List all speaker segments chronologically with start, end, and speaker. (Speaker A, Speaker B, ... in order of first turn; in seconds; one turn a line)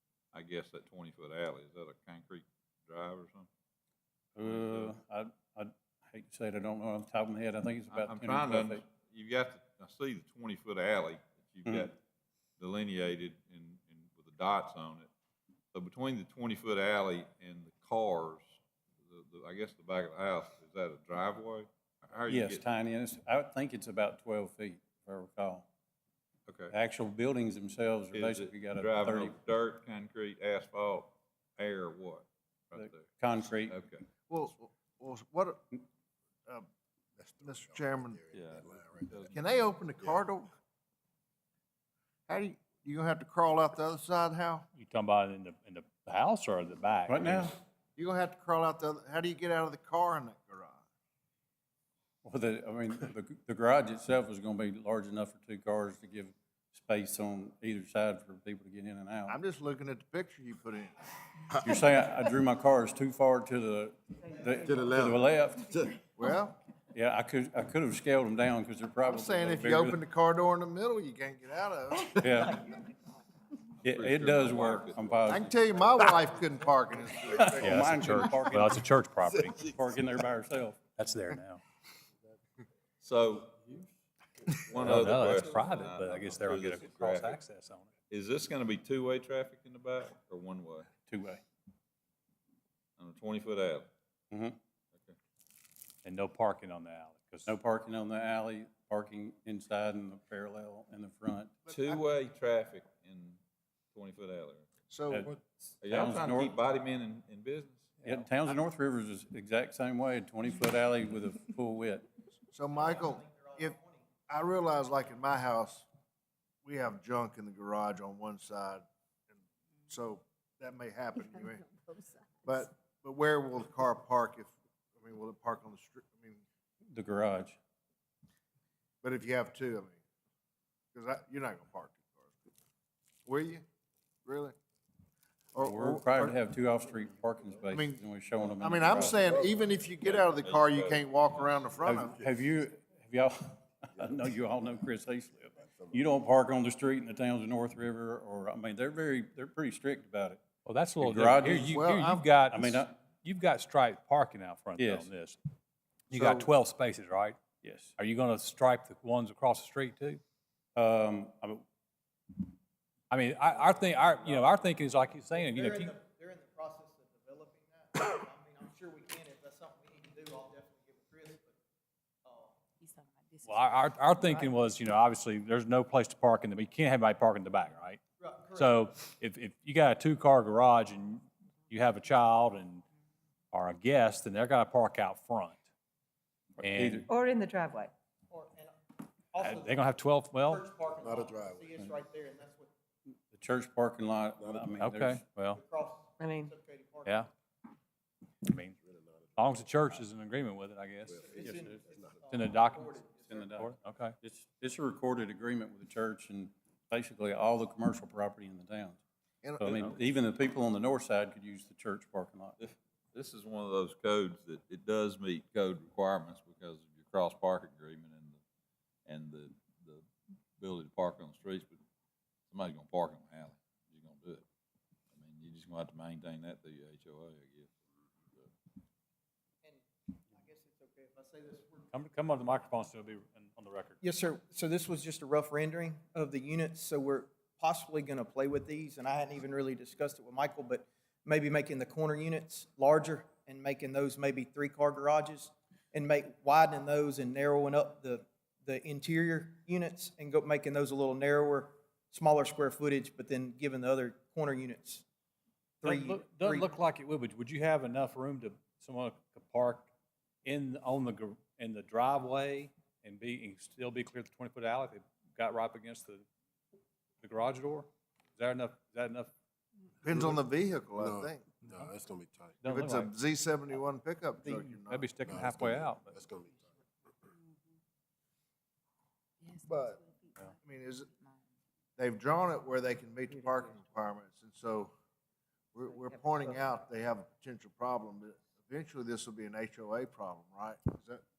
Speaker A: 0.3-3.5
Speaker B: 4.3-8.8
Speaker A: 4.4-4.9
Speaker A: 7.9-12.0
Speaker B: 11.7-11.9
Speaker A: 12.6-15.1
Speaker A: 15.7-22.6
Speaker B: 22.3-25.7
Speaker A: 26.5-26.7
Speaker B: 26.7-29.4
Speaker A: 28.1-34.0
Speaker B: 32.8-33.8
Speaker C: 34.3-35.7
Speaker C: 37.3-40.5
Speaker D: 38.1-39.2
Speaker A: 38.3-39.4
Speaker C: 42.3-44.6
Speaker E: 44.7-47.5
Speaker B: 47.1-47.6
Speaker C: 48.0-50.8
Speaker B: 52.2-59.4
Speaker C: 59.3-61.0
Speaker B: 61.6-66.0
Speaker F: 64.2-65.1
Speaker D: 64.6-65.2
Speaker C: 66.2-66.6
Speaker B: 66.9-70.0
Speaker C: 69.1-72.5
Speaker B: 72.2-72.7
Speaker A: 73.8-75.4
Speaker B: 73.8-75.5
Speaker C: 75.3-78.2
Speaker E: 77.5-79.7
Speaker B: 77.6-78.8
Speaker B: 79.6-80.8
Speaker E: 80.9-81.6
Speaker A: 83.0-83.7
Speaker A: 84.7-87.4
Speaker E: 84.8-87.9
Speaker A: 88.1-90.9
Speaker B: 91.1-91.4
Speaker A: 93.0-93.9
Speaker B: 94.3-94.6
Speaker E: 96.0-97.5
Speaker B: 97.5-101.6
Speaker C: 101.7-102.0
Speaker A: 101.7-103.4
Speaker A: 103.9-104.7
Speaker C: 104.9-105.3
Speaker B: 105.1-106.6
Speaker A: 105.8-108.0
Speaker E: 108.0-108.3
Speaker B: 108.0-112.0
Speaker C: 112.5-113.8
Speaker G: 112.7-114.0
Speaker C: 114.3-115.8
Speaker C: 116.6-118.8
Speaker C: 119.9-121.6
Speaker F: 121.7-122.2
Speaker C: 122.4-126.4
Speaker B: 126.9-127.6
Speaker C: 129.0-130.0
Speaker C: 130.9-132.3
Speaker C: 133.2-133.6
Speaker C: 134.2-134.6
Speaker C: 135.5-136.4
Speaker B: 135.6-139.2
Speaker C: 137.7-138.0
Speaker C: 138.5-142.3
Speaker A: 140.0-141.5
Speaker B: 141.8-150.4
Speaker E: 150.6-155.4
Speaker B: 151.0-151.7
Speaker C: 151.7-152.2
Speaker B: 152.5-152.9
Speaker B: 154.8-155.1
Speaker E: 156.1-157.4
Speaker C: 156.1-156.4
Speaker B: 157.6-157.9
Speaker E: 158.0-160.2
Speaker B: 160.8-161.6
Speaker E: 163.1-165.9
Speaker G: 165.3-171.6
Speaker G: 172.2-172.6
Speaker F: 172.8-174.4
Speaker E: 173.4-178.0
Speaker G: 178.2-178.7
Speaker E: 178.5-182.8
Speaker E: 183.5-185.6
Speaker E: 186.6-187.1
Speaker B: 186.6-187.1
Speaker F: 187.1-187.9
Speaker G: 188.3-188.7
Speaker G: 189.3-192.7
Speaker E: 189.4-190.6
Speaker D: 191.0-191.8
Speaker B: 193.3-195.2
Speaker D: 194.4-194.9
Speaker E: 194.8-195.6
Speaker G: 195.5-197.2
Speaker F: 196.2-196.5
Speaker E: 197.0-197.3
Speaker E: 198.4-198.8
Speaker D: 198.8-199.9
Speaker E: 199.3-201.3
Speaker D: 201.1-202.3
Speaker G: 201.2-203.5
Speaker B: 201.4-201.8
Speaker E: 202.3-204.2
Speaker B: 203.1-209.0
Speaker C: 209.4-209.9
Speaker B: 209.6-212.6
Speaker A: 212.6-218.4
Speaker A: 219.1-220.0
Speaker A: 220.6-221.8
Speaker A: 222.5-224.4
Speaker A: 225.1-227.7
Speaker G: 229.6-231.9
Speaker E: 231.9-234.0
Speaker G: 234.0-255.0
Speaker G: 255.8-256.6
Speaker E: 255.8-259.9
Speaker E: 260.4-266.2
Speaker E: 267.2-269.3
Speaker C: 270.0-271.5
Speaker D: 271.0-272.6
Speaker E: 272.6-273.1
Speaker C: 272.6-275.1
Speaker E: 274.4-276.2
Speaker D: 275.3-276.7
Speaker F: 279.4-280.5
Speaker C: 279.6-280.0
Speaker C: 280.6-281.1
Speaker C: 282.0-284.9
Speaker C: 285.7-291.2